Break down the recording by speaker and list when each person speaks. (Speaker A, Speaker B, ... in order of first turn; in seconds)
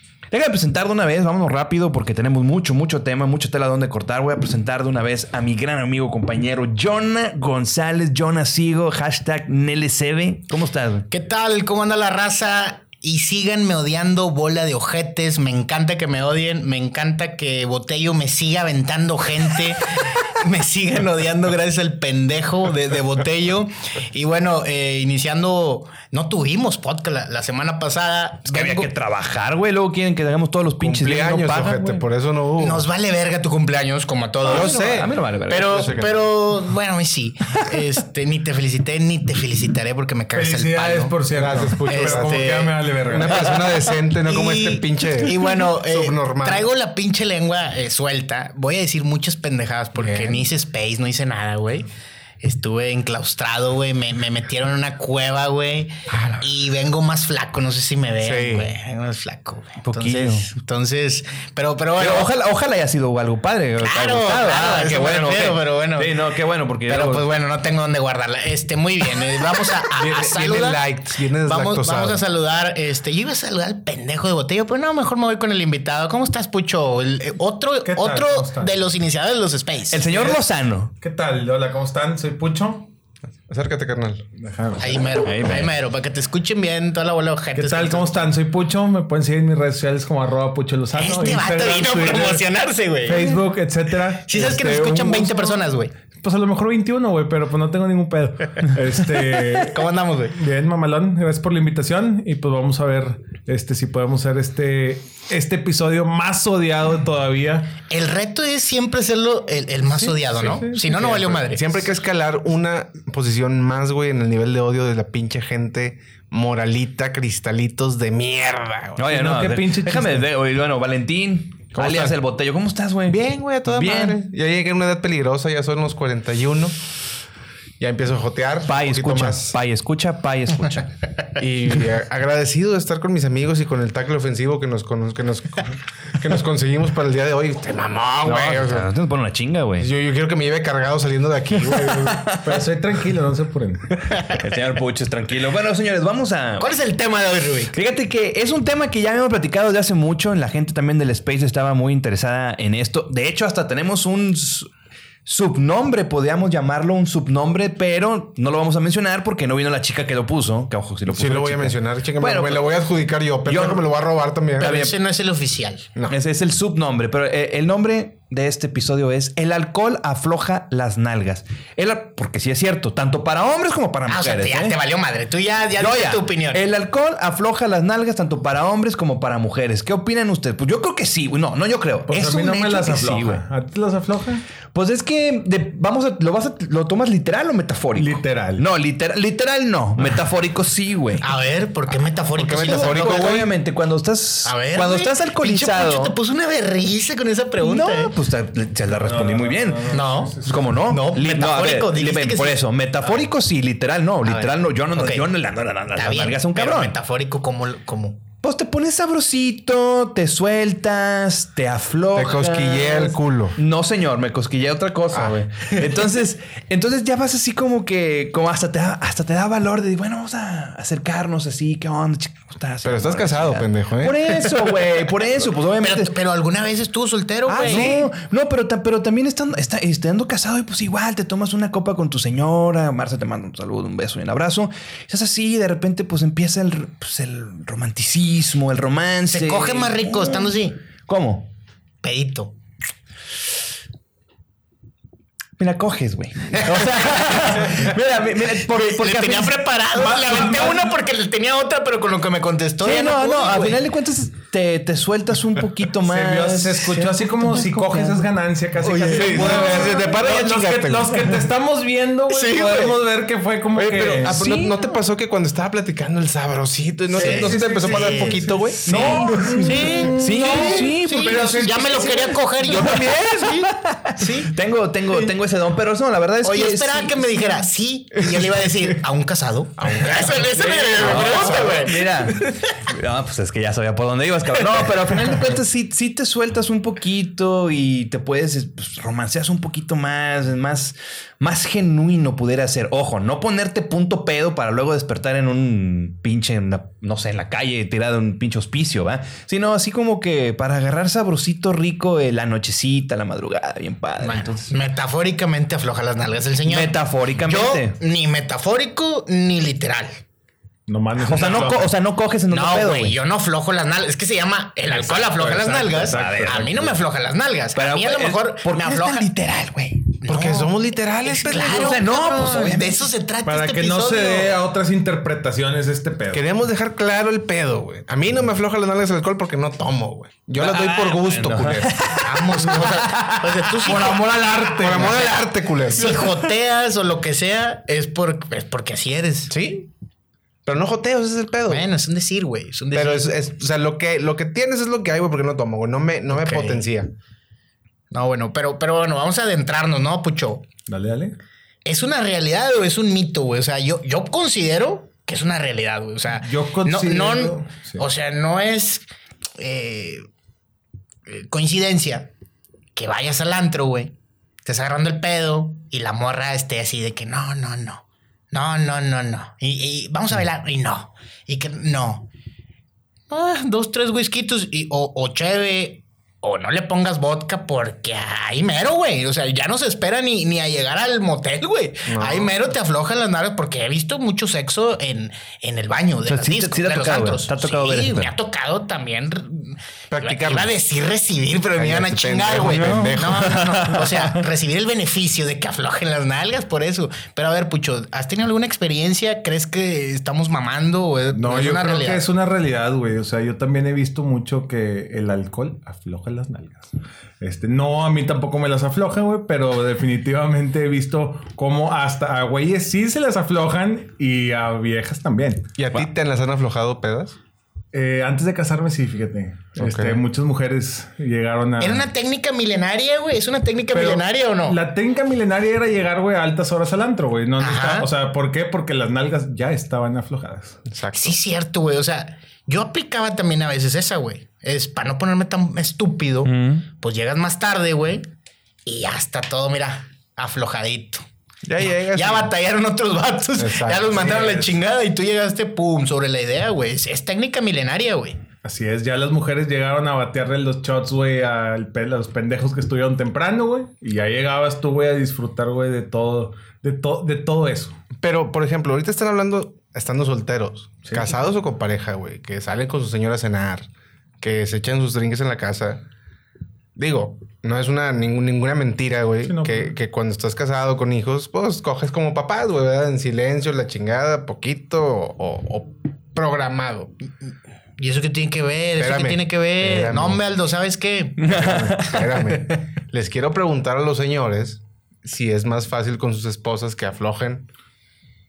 Speaker A: 0.3-11.1, 28.5-32.0, 34.5-36.0, 59.8-60.5, 62.0-67.3, 79.9-80.9, 85.2-85.7, 119.0-124.2, 128.7-130.9, 138.2-139.9, 141.7-142.4, 144.1-146.7, 147.7-154.7, 155.2-162.7, 163.5-163.8, 164.6-164.9, 166.1-174.8, 175.8-183.4, 184.7-191.3, 192.5-196.1, 197.6-206.9, 208.4-226.1, 227.5-241.5, 245.6-249.6, 252.8-258.3, 258.8-260.0, 264.3-264.8, 268.9-269.5, 270.1-271.8, 272.7-277.6, 280.4-304.7, 306.6-308.0, 311.2-313.2, 316.1-317.0, 317.7-320.2, 321.5-323.1, 330.6-333.9, 336.1-336.5, 386.2-388.3, 392.6-394.4, 436.4-436.8, 481.4-482.5
Speaker B: 11.1-28.9, 32.6-41.1, 41.9-42.7, 43.3-43.6, 44.1-51.9, 52.4-62.3, 63.8-66.2, 66.8-70.8, 71.4-80.0, 84.8-88.2, 91.0-93.3, 94.2-95.9, 99.5-100.3, 107.9-111.8, 146.6-147.7, 164.6-165.9, 174.1-176.6, 191.2-193.4, 194.4-198.1, 199.9-203.3, 204.2-205.3, 205.9-208.2, 225.8-228.0, 239.3-240.8, 242.0-242.5, 246.5-247.9, 248.4-253.8, 259.2-259.8, 262.3-262.9, 267.1-268.4, 269.6-274.5, 276.4-282.7, 304.2-310.2, 312.5-319.3, 320.2-324.6, 332.2-334.2, 334.9-339.5, 341.7-343.3, 346.3-346.9, 348.1-350.6, 351.8-359.1, 359.6-360.2, 361.3-362.3, 362.9-364.1, 364.6-372.3, 373.3-402.2, 421.8-424.8, 427.6-428.1, 431.1-438.2, 438.9-441.2, 441.8-448.4, 478.0-481.8
Speaker C: 30.8-32.9, 34.5-36.2, 41.3-46.7, 50.0-50.5, 58.2-58.7, 70.0-72.2, 83.5-84.2, 111.0-119.0, 121.7-122.2, 123.1-126.8, 127.8-129.6, 131.4-138.9, 139.8-142.3, 161.1-164.8, 192.4-193.5, 212.1-213.6, 215.1-215.4, 222.8-224.3, 227.5-228.1, 258.9-261.3, 263.7-270.5, 272.6-273.7, 280.9-281.8, 320.2-322.1, 326.3-332.0, 334.7-336.3, 339.5-339.9, 340.6-341.9, 342.9-347.1, 382.1-382.5, 390.1-390.7, 391.8-393.6, 415.8-417.4, 419.8-420.2, 430.9-431.4, 441.6-442.5, 443.6-444.1, 458.2-463.9, 464.4-466.0, 466.9-477.1, 479.0-480.4, 481.4-487.6
Speaker D: 40.3-43.5, 77.8-78.8, 81.0-82.9, 84.4-85.1, 87.5-92.4, 93.0-95.6, 96.2-107.7, 110.0-111.3, 119.1-120.3, 142.4-144.0, 182.1-184.4, 187.9-188.6, 198.9-200.8, 249.9-251.0, 256.0-264.4, 267.1-272.4, 279.9-280.4, 310.9-311.9, 314.9-316.8, 323.4-326.4, 333.9-335.3, 350.9-351.4, 356.4-358.1, 401.3-415.7, 417.9-422.1, 423.9-430.8, 444.1-444.8, 448.6-457.9, 461.0-461.3, 469.4-469.9